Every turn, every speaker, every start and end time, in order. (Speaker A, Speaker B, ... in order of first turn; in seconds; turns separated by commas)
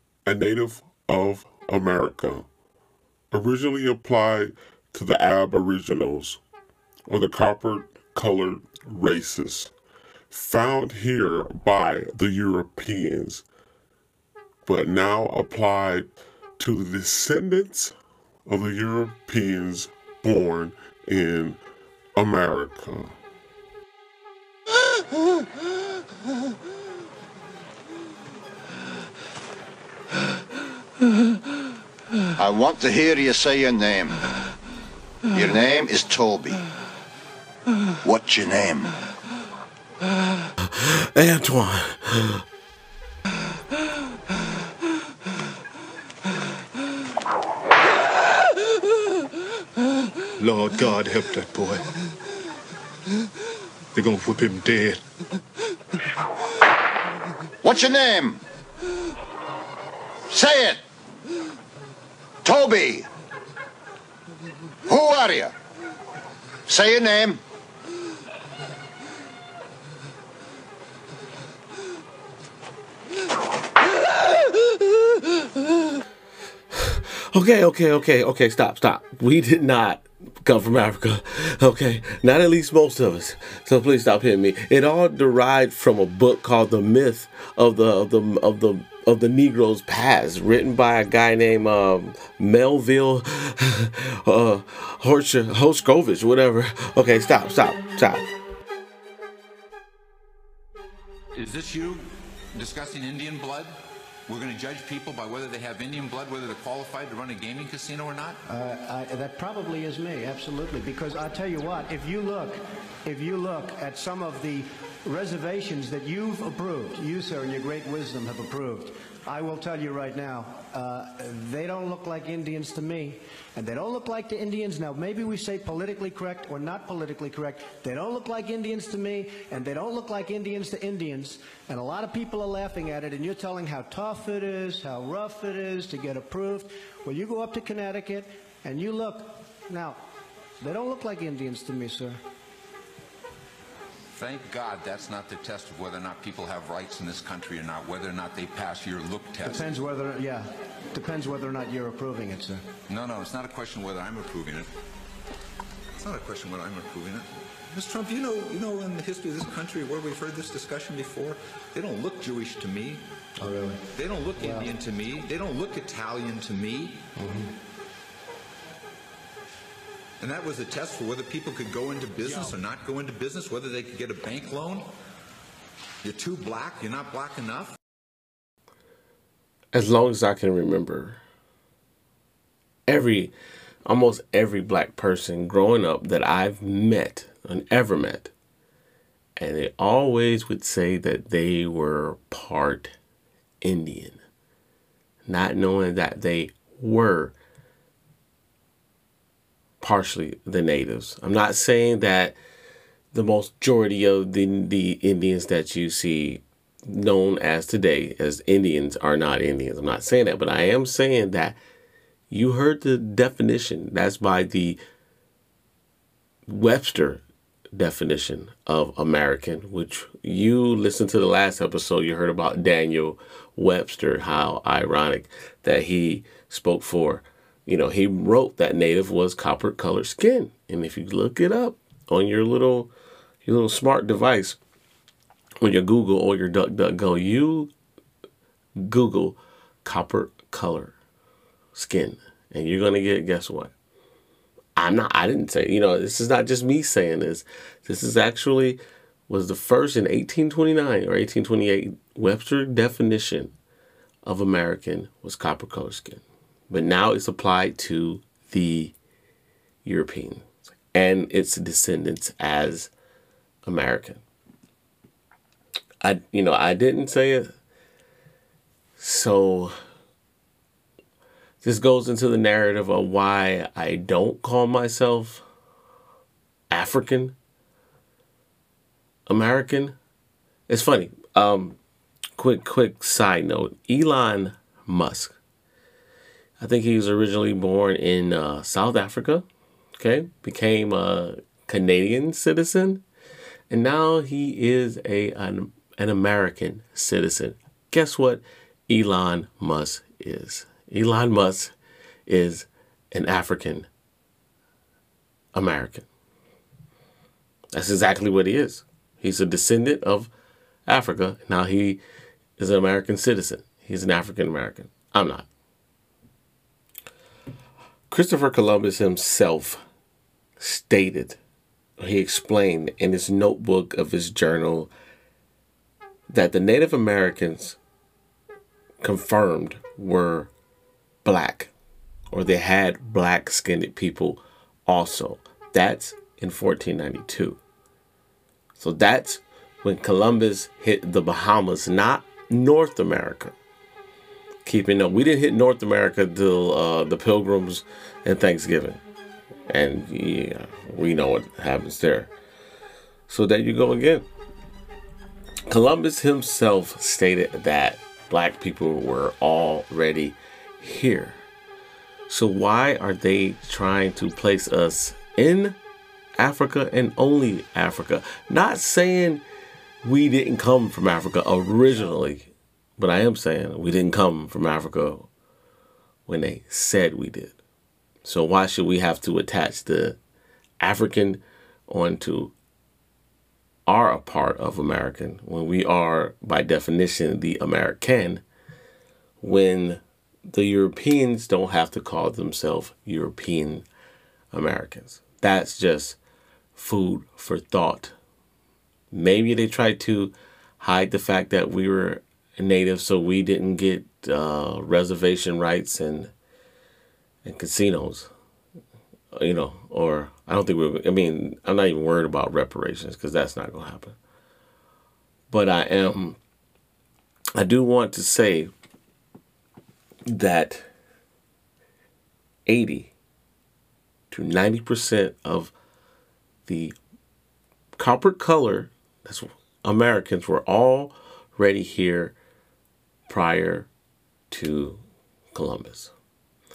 Speaker A: 0.2-2.5, Speaker A: 3.3-6.4, Speaker A: 7.1-9.7, Speaker A: 10.3-13.4, Speaker A: 14.7-17.9, Speaker A: 18.5-21.6, Speaker A: 22.1-23.1, Speaker B: 32.4-34.2, Speaker B: 35.3-36.6, Speaker B: 38.0-38.9, Speaker C: 40.6-42.4, Speaker D: 50.4-51.9, Speaker D: 53.9-55.0, Speaker B: 57.6-58.4, Speaker B: 60.3-60.8, Speaker B: 62.4-63.1, Speaker B: 64.9-65.5, Speaker B: 66.7-67.4, Speaker C: 76.7-98.2, Speaker E: 101.3-102.0, Speaker E: 102.5-103.7, Speaker E: 104.3-108.4, Speaker F: 108.5-140.0, Speaker F: 140.6-142.2, Speaker E: 144.2-149.8, Speaker F: 149.4-152.6, Speaker E: 152.9-154.7, Speaker E: 156.0-163.0, Speaker F: 163.4-163.8, Speaker E: 163.9-167.1, Speaker F: 164.4-164.7, Speaker F: 167.2-167.5, Speaker E: 170.2-174.8, Speaker E: 176.0-177.8, Speaker C: 179.7-181.2, Speaker C: 182.9-183.3, Speaker C: 183.8-188.3, Speaker C: 189.4-192.9, Speaker C: 193.6-194.2, Speaker C: 195.2-197.3, Speaker C: 199.8-202.3, Speaker C: 203.1-211.6, Speaker C: 212.3-214.8, Speaker C: 216.5-217.2, Speaker C: 217.7-232.9, Speaker C: 233.4-234.6, Speaker C: 235.6-237.7, Speaker C: 238.8-240.9, Speaker C: 241.7-243.7, Speaker C: 244.8-253.5, Speaker C: 254.2-258.9, Speaker C: 259.8-262.9, Speaker C: 263.6-264.2, Speaker C: 266.0-267.5, Speaker C: 269.0-269.7, Speaker C: 271.6-275.4, Speaker C: 276.7-277.4, Speaker C: 279.3-279.9, Speaker C: 280.7-281.8, Speaker C: 282.4-285.4, Speaker C: 286.6-289.4, Speaker C: 290.0-293.0, Speaker C: 293.7-301.7, Speaker C: 302.2-303.9, Speaker C: 305.5-306.1, Speaker C: 307.7-310.3, Speaker C: 310.9-312.0, Speaker C: 312.6-315.4, Speaker C: 318.1-319.8, Speaker C: 320.6-321.4, Speaker C: 322.0-324.9, Speaker C: 326.3-327.8, Speaker C: 329.0-330.5, Speaker C: 331.2-331.7, Speaker C: 332.3-337.6, Speaker C: 338.8-343.5, Speaker C: 344.6-349.0, Speaker C: 349.7-352.3, Speaker C: 353.3-354.3, Speaker C: 355.7-361.4, Speaker C: 362.3-365.8, Speaker C: 366.4-369.4, Speaker C: 370.0-375.3, Speaker C: 376.3-377.6, Speaker C: 378.2-380.2, Speaker C: 380.8-382.5, Speaker C: 383.9-388.4, Speaker C: 389.4-393.9, Speaker C: 394.5-396.2, Speaker C: 396.7-398.1, Speaker C: 399.1-406.3, Speaker C: 407.4-408.3, Speaker C: 409.3-414.2, Speaker C: 415.5-416.4, Speaker C: 417.6-418.7, Speaker C: 420.3-420.9, Speaker C: 422.7-423.1, Speaker C: 424.3-425.7, Speaker C: 426.6-426.9, Speaker C: 427.9-432.4, Speaker C: 433.3-433.9, Speaker C: 434.5-435.0, Speaker C: 435.5-436.1